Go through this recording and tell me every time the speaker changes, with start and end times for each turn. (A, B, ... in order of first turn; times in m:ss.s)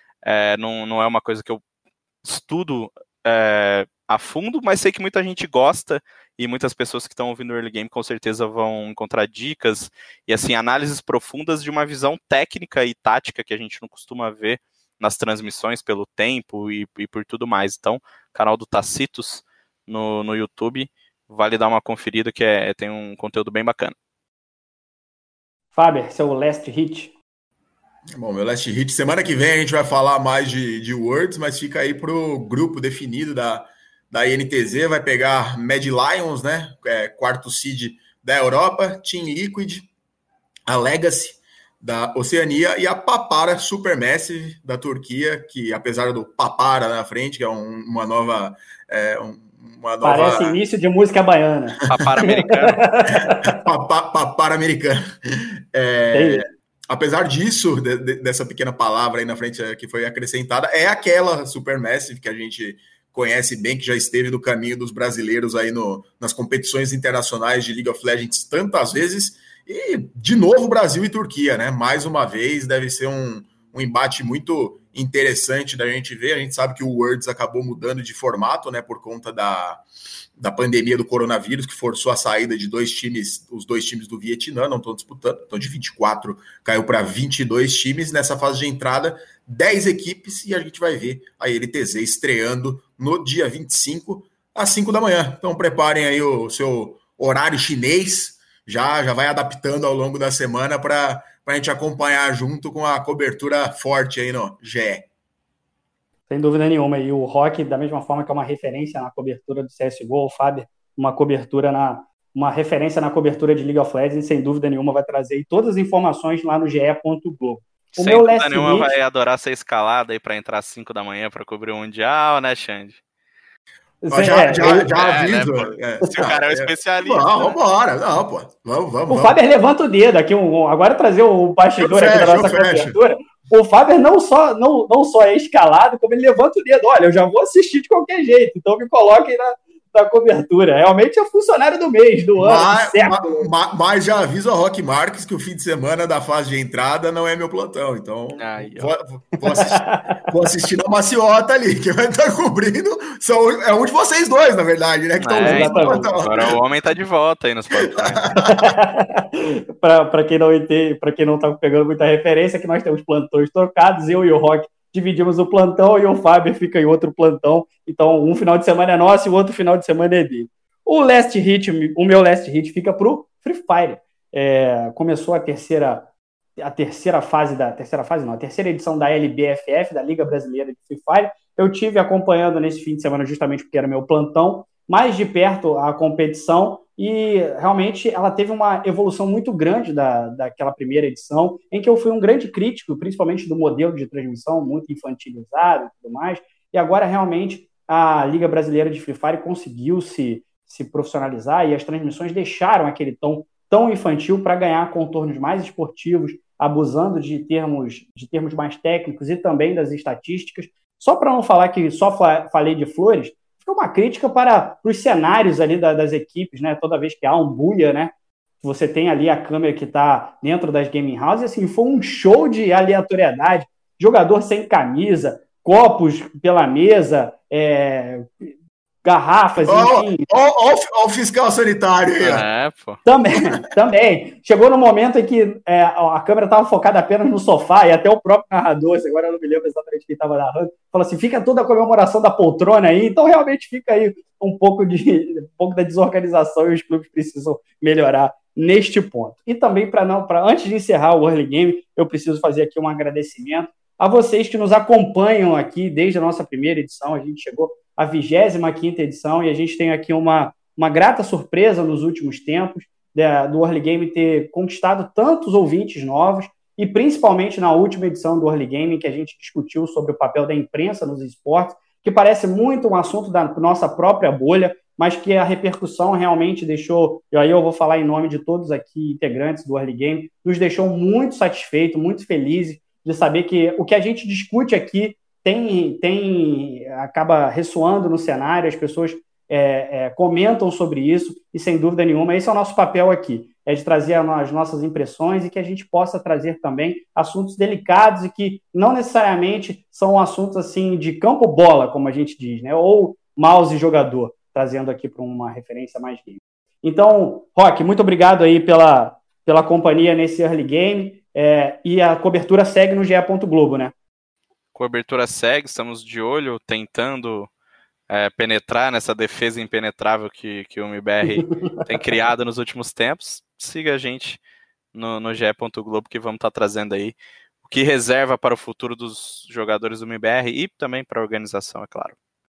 0:00.2-0:01.6 A
0:02.2-0:23.9 A
0:25.7-0:27.1 B
0:28.1-0:39.9 C
0:40.7-0:50.6 C
0:50.0-0:53.4 B
0:51.9-0:52.8 A
0:53.4-0:55.2 C
0:55.7-1:19.8 C
0:56.1-0:56.4 B
1:20.4-1:45.1 C
1:46.3-1:58.9 B
1:57.9-2:03.0 A
2:04.0-2:04.9 B
2:04.1-2:09.4 C
2:04.6-2:07.6 A
2:09.1-2:23.5 B
2:11.8-2:13.0 C
2:22.4-2:36.5 C
2:28.4-2:28.9 A
2:29.5-2:30.2 B
2:35.2-2:38.3 A
2:35.4-2:36.1 B
2:38.0-2:38.7 C
2:38.4-2:56.1 B
2:56.6-3:48.3 B
3:49.0-3:50.3 B
3:49.6-3:52.4 C
3:52.2-3:53.0 A
3:53.0-5:13.9 B
5:14.7-5:17.5 A
5:18.1-5:24.4 A
5:24.9-5:32.1 A